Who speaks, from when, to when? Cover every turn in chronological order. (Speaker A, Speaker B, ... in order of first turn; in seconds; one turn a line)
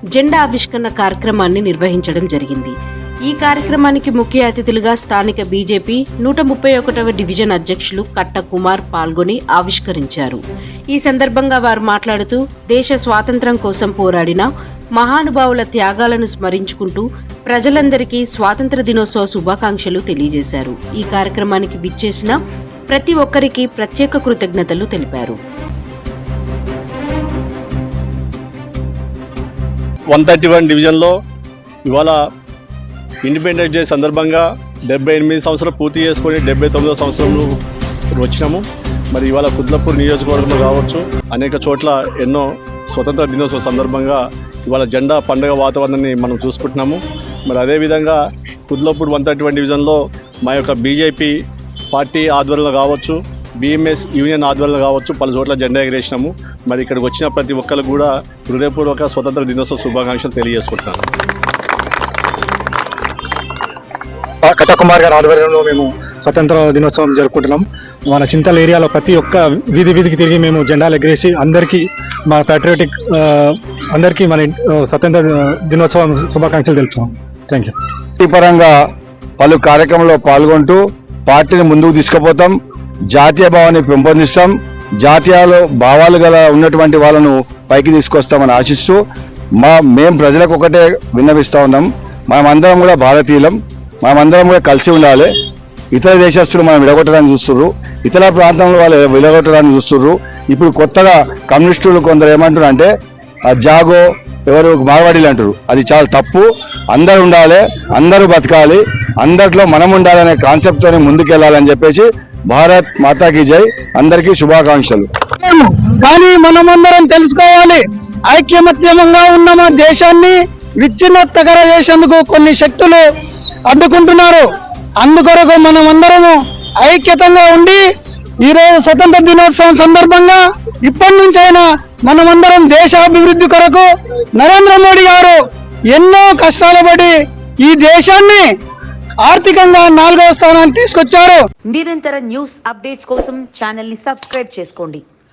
Speaker A: 0.1-2.7
Speaker A: 3.3-22.4
Speaker A: 22.9-25.4
Speaker B: 30.1-31.1
Speaker B: 31.9-32.2
Speaker B: 33.2-37.6
Speaker B: 38.2-51.3
Speaker B: 51.9-61.0
Speaker C: 64.4-77.7
Speaker D: 78.2-78.7
Speaker D: 79.4-82.6
Speaker D: 83.1-89.0
Speaker D: 89.6-95.3
Speaker D: 95.9-102.9
Speaker D: 103.5-115.1
Speaker E: 115.4-123.1
Speaker E: 123.7-127.9
Speaker E: 128.4-138.5
Speaker E: 139.2-141.4
Speaker F: 141.7-145.0